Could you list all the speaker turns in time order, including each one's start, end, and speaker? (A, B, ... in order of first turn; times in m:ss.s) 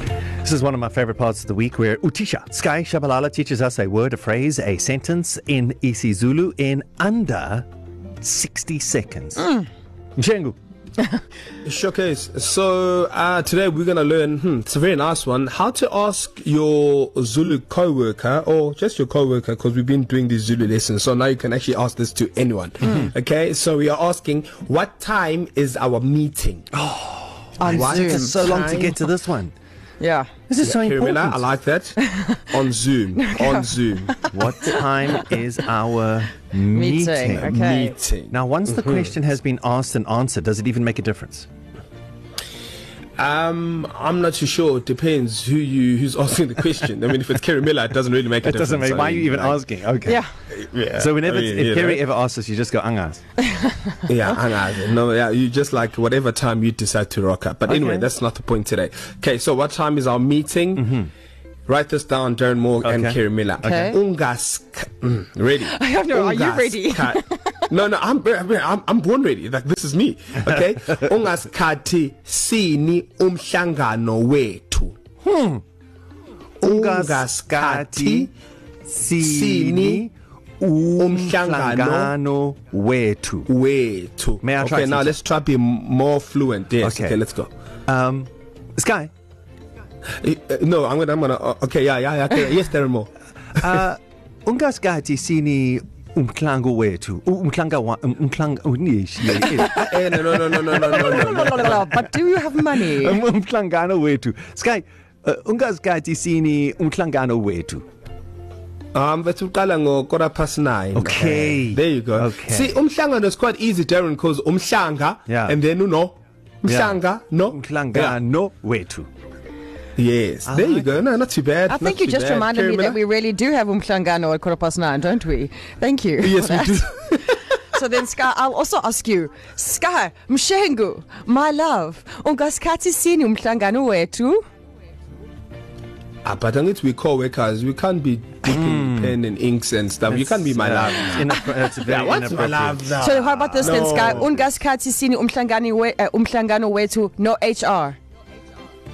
0:00.4-0:07.7 A
0:08.2-0:09.6 A
0:10.2-0:10.6 A
0:11.6-0:26.7 B
0:26.8-0:29.5 A
0:27.6-0:28.4 C
0:27.7-0:29.0 B
0:30.0-0:30.3 C
0:30.5-0:31.5 A
0:30.6-0:34.1 B
0:33.2-0:34.7 C
0:34.3-0:37.7 A
0:36.7-0:38.0 C
0:37.4-0:39.1 B
0:38.3-0:41.5 A
0:43.2-0:49.6 B
0:48.4-0:50.2 A
0:50.5-0:52.0 B
0:50.9-0:53.2 A
0:54.1-1:01.0 B
0:57.7-0:58.0 C
1:01.7-1:15.0 B
1:02.8-1:03.2 A
1:03.6-1:04.0 C
1:05.6-1:07.6 C
1:15.2-1:15.6 A
1:16.6-1:18.3 B
1:16.6-1:18.3 A
1:18.9-1:23.5 A
1:19.2-1:20.1 B
1:21.0-1:22.1 B
1:23.5-1:27.5 B
1:24.4-1:25.2 A
1:26.8-1:27.2 A
1:27.9-1:29.1 A
1:30.2-1:33.1 B
1:33.5-1:42.0 A
1:39.5-1:41.7 B
1:40.9-1:43.2 C
1:42.8-1:47.8 A
1:48.9-1:58.2 B
1:50.9-1:52.8 A
1:55.3-1:55.6 A
1:56.7-1:57.0 A
1:57.5-1:59.1 A
2:00.0-2:03.0 B
2:00.4-2:00.9 A
2:01.7-2:14.4 C
2:06.2-2:07.3 B
2:16.2-2:24.5 B
2:18.5-2:19.1 A
2:20.1-2:23.8 A
2:23.0-2:28.0 C